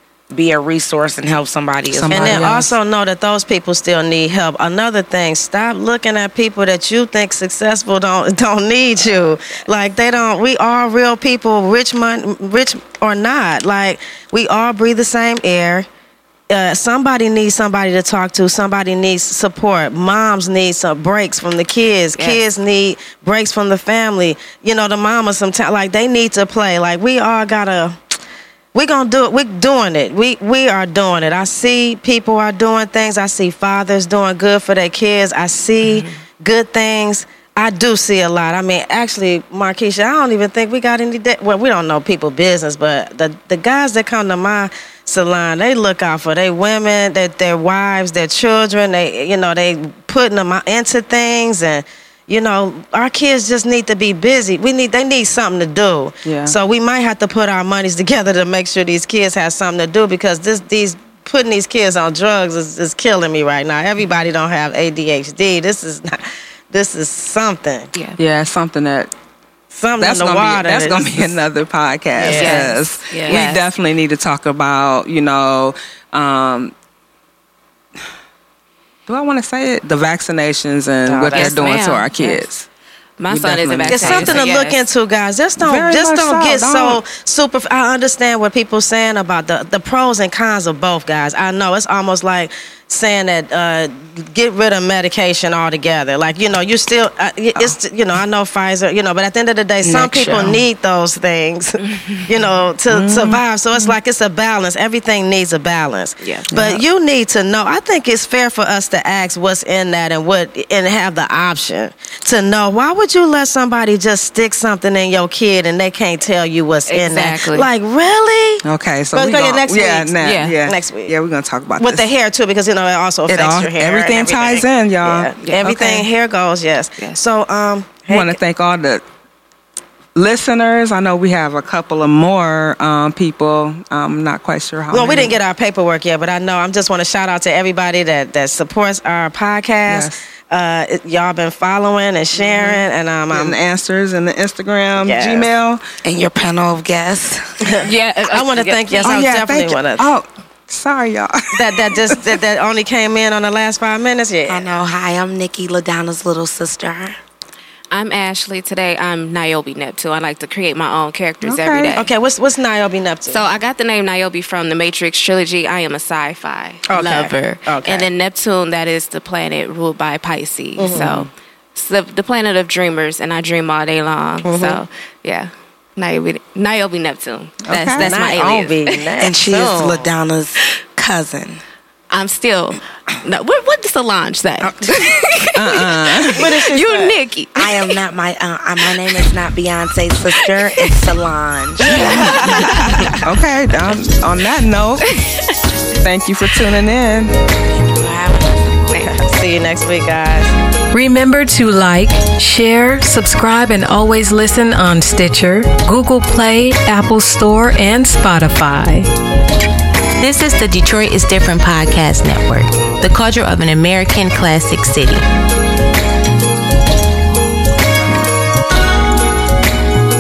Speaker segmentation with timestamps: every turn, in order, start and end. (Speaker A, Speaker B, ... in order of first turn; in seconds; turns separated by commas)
Speaker A: 0.3-2.6, Speaker B: 1.9-2.7, Speaker C: 2.1-15.9, Speaker C: 16.5-28.0, Speaker D: 22.1-22.4, Speaker C: 28.7-67.9, Speaker D: 35.8-36.1, Speaker B: 56.2-56.6, Speaker B: 68.2-69.1, Speaker C: 69.7-71.3, Speaker B: 70.0-76.7, Speaker C: 72.2-72.7, Speaker D: 72.2-73.7, Speaker B: 79.1-82.7, Speaker C: 81.2-81.6, Speaker D: 81.3-82.5, Speaker D: 83.2-84.8, Speaker B: 83.3-84.4, Speaker C: 83.9-118.6, Speaker B: 85.6-87.0, Speaker A: 99.8-100.6, Speaker B: 102.9-103.4, Speaker D: 106.2-106.5, Speaker B: 106.5-106.8, Speaker D: 116.9-117.7, Speaker B: 118.6-122.0, Speaker C: 119.1-121.1, Speaker D: 120.2-120.6, Speaker C: 121.8-128.4, Speaker B: 123.3-125.3, Speaker D: 125.4-126.1, Speaker B: 128.1-129.0, Speaker B: 130.2-135.4, Speaker C: 134.9-143.6, Speaker B: 139.9-140.2, Speaker D: 142.5-142.8, Speaker B: 143.3-145.8, Speaker C: 145.0-145.5, Speaker A: 146.0-147.8, Speaker C: 147.7-150.1, Speaker D: 147.8-149.2, Speaker B: 149.0-152.3, Speaker C: 151.5-154.7, Speaker A: 154.5-157.2, Speaker D: 157.9-162.1, Speaker B: 161.4-161.9, Speaker C: 161.9-163.4, Speaker D: 163.3-179.0, Speaker C: 166.9-168.1, Speaker C: 170.8-171.3, Speaker C: 174.4-174.8, Speaker B: 177.7-178.2, Speaker C: 178.0-180.1, Speaker A: 179.2-181.6, Speaker D: 182.1-188.0, Speaker B: 185.5-186.5, Speaker C: 186.3-187.2, Speaker A: 187.6-193.2, Speaker D: 190.3-191.0, Speaker D: 191.8-193.2, Speaker C: 191.9-193.2, Speaker B: 192.6-195.1, Speaker D: 195.1-195.6, Speaker B: 196.0-197.3, Speaker A: 197.7-199.0, Speaker C: 198.9-200.5, Speaker E: 200.9-209.1, Speaker F: 210.2-215.2